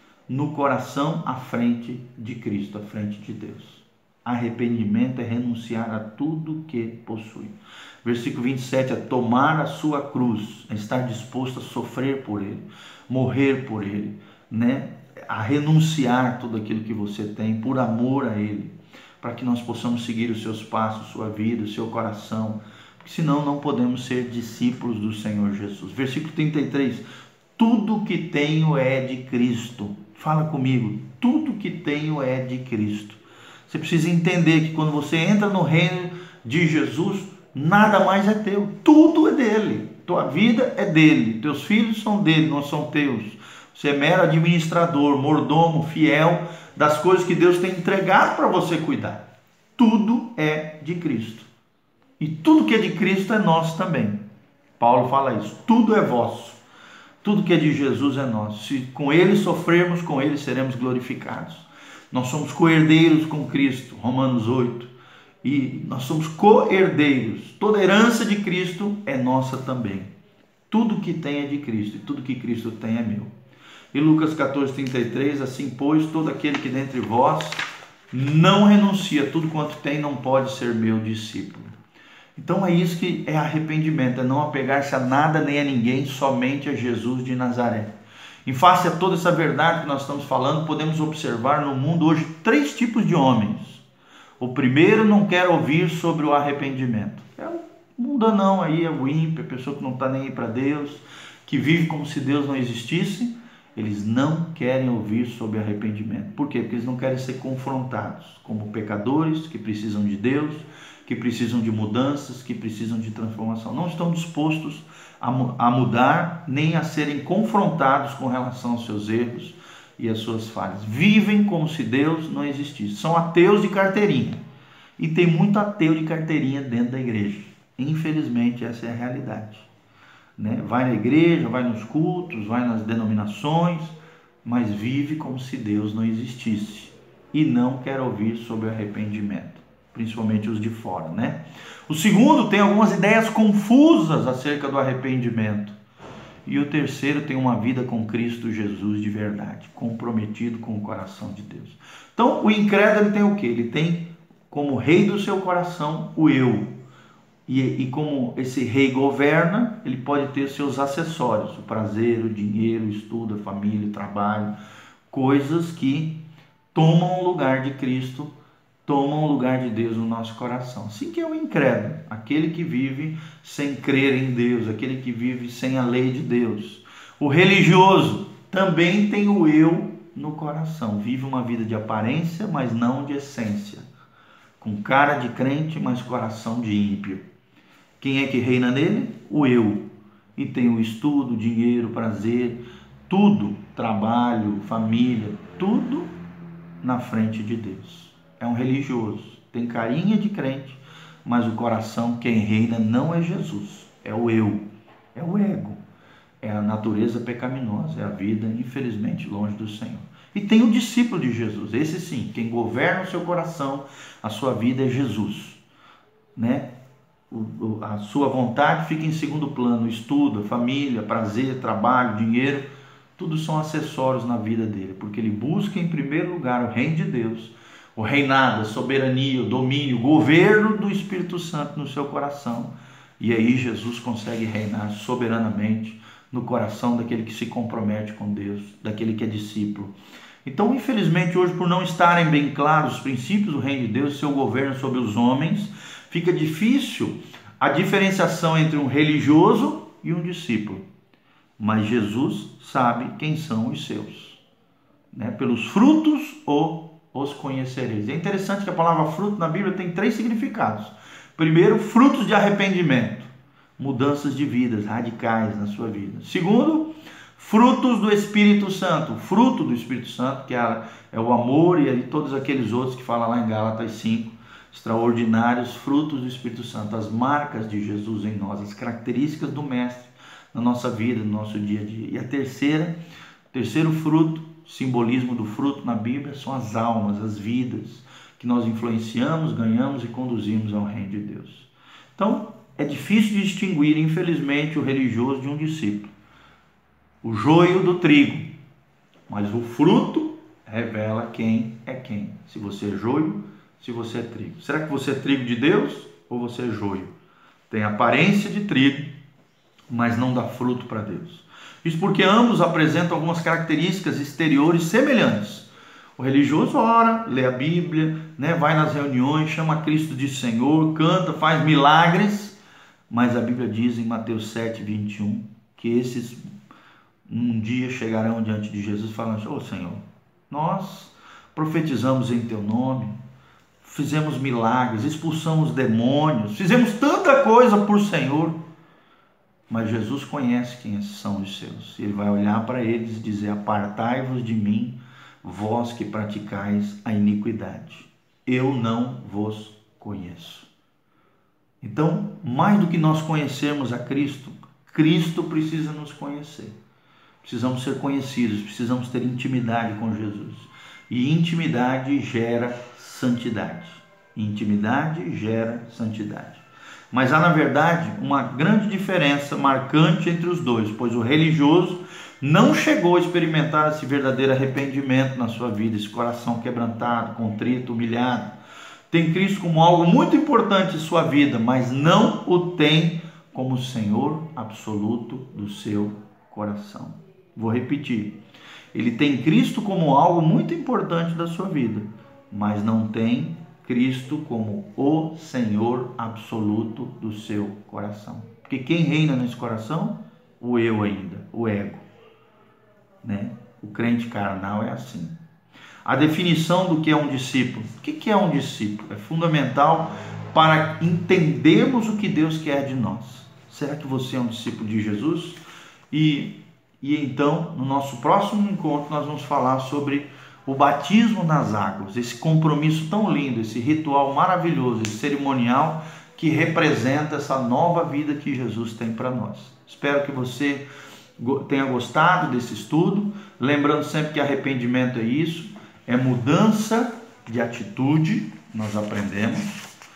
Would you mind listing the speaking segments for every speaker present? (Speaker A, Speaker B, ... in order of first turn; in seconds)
Speaker A: 0.3-27.1, 27.6-49.2, 49.8-51.5, 52.2-54.2, 54.8-56.6, 57.2-64.9, 65.4-70.1, 70.7-73.3, 73.9-81.7, 82.4-87.9, 88.5-93.8, 94.4-124.4, 125.0-129.7, 130.4-145.8, 146.4-156.7, 157.5-164.5, 165.1-166.2, 166.7-168.3, 168.9-183.9, 184.6-187.2, 188.0-189.8, 190.4-196.1, 196.8-205.8, 206.4-215.6, 216.3-216.7, 217.3-239.9, 240.4-250.8, 251.6-254.4, 255.1-282.9, 283.5-296.1, 297.2-298.5, 299.3-307.1, 307.7-309.1, 309.9-315.7, 316.2-322.6, 323.1-326.4, 327.3-333.2, 333.8-338.6, 339.7-350.7, 351.8-356.7, 357.4-378.5, 379.1-388.4, 388.9-402.0, 403.2-405.4, 406.0-430.9, 431.4-439.7